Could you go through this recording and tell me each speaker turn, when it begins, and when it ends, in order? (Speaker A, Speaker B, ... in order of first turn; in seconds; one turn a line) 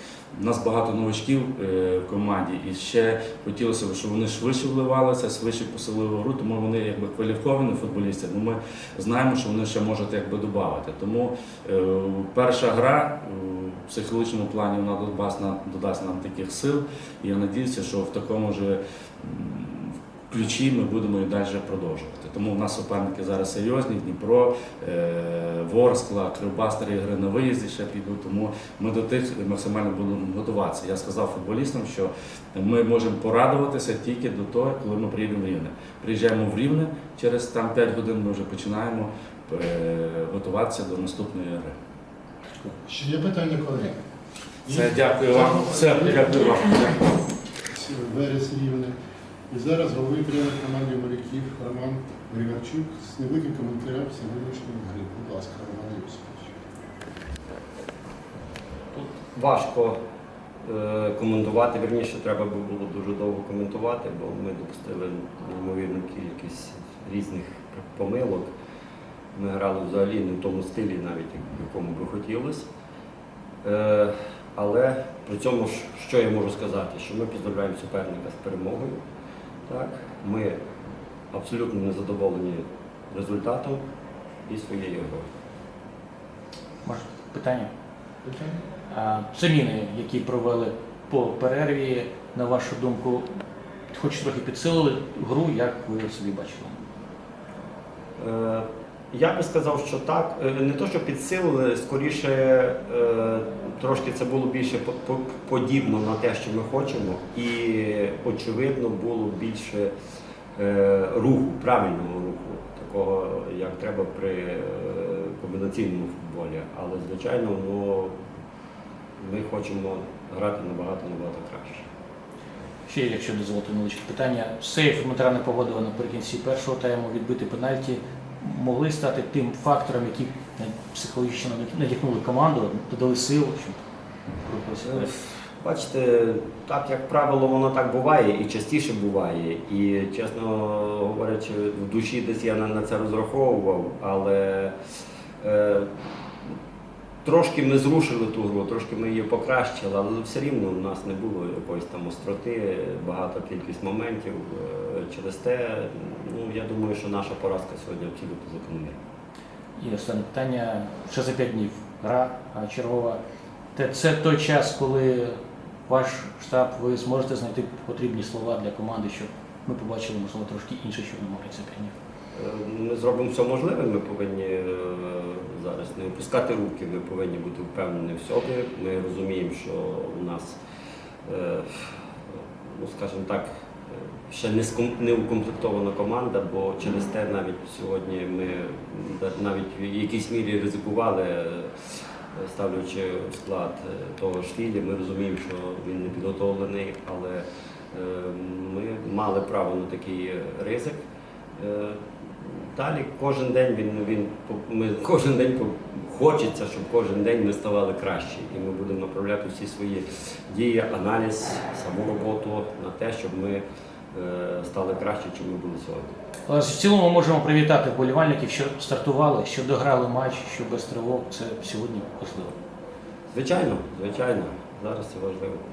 Speaker A: 0.3-41.7
Speaker B: 42.8-44.0
Speaker B: 44.7-46.5
Speaker A: 44.7-47.1
Speaker B: 47.7-48.9
Speaker B: 49.5-56.5
Speaker C: 58.9-60.0
Speaker C: 60.6-68.5
Speaker C: 69.3-72.7
Speaker C: 73.6-79.0
Speaker C: 79.7-80.6
Speaker C: 81.3-83.8
Speaker C: 84.5-85.3
Speaker D: 86.8-87.7
Speaker B: 88.2-88.6
Speaker D: 88.9-93.3
Speaker D: 93.9-96.8
Speaker C: 98.2-109.9
Speaker C: 110.5-118.2
Speaker C: 119.2-121.9
Speaker D: 122.9-133.8
Speaker D: 134.4-135.2
Speaker C: 134.8-144.7
Speaker C: 145.4-145.9
Speaker C: 147.2-159.0
Speaker D: 159.8-163.2
Speaker D: 163.8-171.9
Speaker C: 172.3-180.6
Speaker C: 181.3-182.0
Speaker C: 182.7-183.5
Speaker C: 184.3-191.7
Speaker C: 192.3-201.0
Speaker C: 201.6-213.6
Speaker C: 214.1-216.1
Speaker D: 216.5-222.5
Speaker C: 223.3-225.6